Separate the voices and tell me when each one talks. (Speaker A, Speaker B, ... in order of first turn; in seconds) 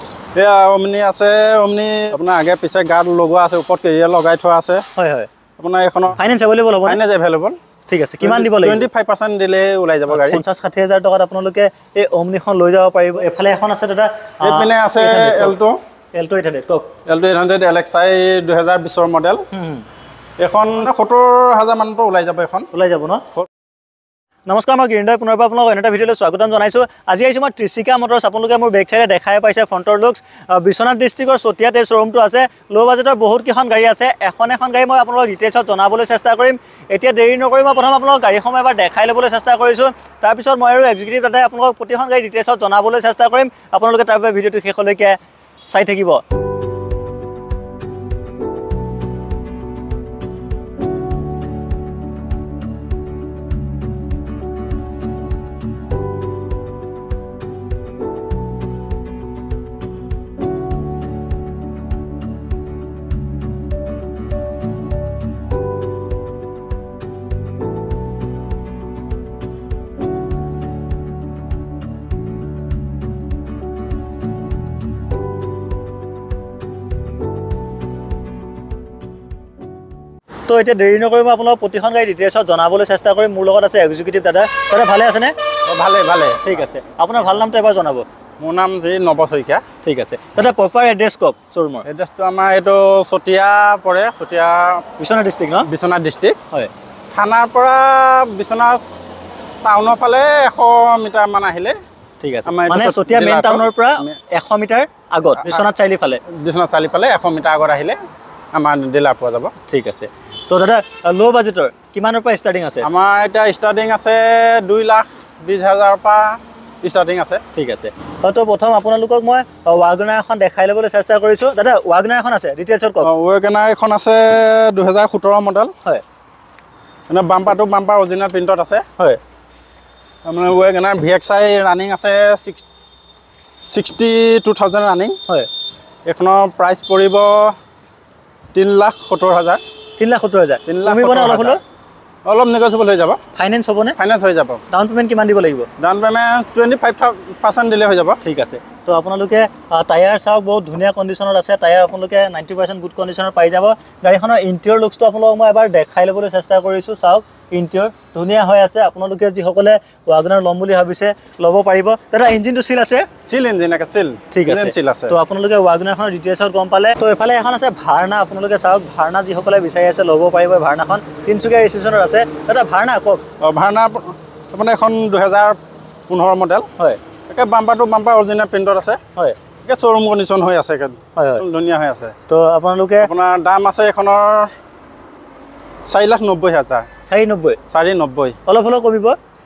Speaker A: 0.3-4.8, 5.6-6.2, 6.8-7.6, 8.2-10.4, 14.4-15.8, 17.1-19.4, 20.4-22.7, 85.7-86.6, 88.4-89.6, 91.8-94.9, 95.7-96.4, 97.1-98.8, 99.6-101.8, 102.5-104.1, 106.3-108.0, 108.5-109.5, 112.8-117.4, 123.0-125.7, 127.1-128.8, 130.2-132.6, 133.7-135.2, 136.1-137.6, 138.5-139.6, 140.7-141.6, 142.2-143.2, 144.0-144.6, 145.8-148.2, 163.2-165.2, 173.4-175.6, 176.1-176.7, 177.3-179.0, 179.6-182.1, 183.0-184.5, 185.9-186.9, 187.7-188.4
Speaker B: 5.0-5.3, 6.2-7.0, 7.9-8.9, 10.1-15.5, 16.1-16.9, 19.5-19.8, 22.7-23.3, 24.5-46.2, 80.5-85.3, 86.4-88.0, 89.8-91.8, 95.0-95.7, 102.2-106.2, 109.7-112.9, 117.5-123.1, 140.0-141.6, 143.3-144.0, 144.7-145.7, 148.2-163.1, 164.3-173.2, 181.2-181.4, 182.3-183.1, 187.0-187.6, 188.4-189.2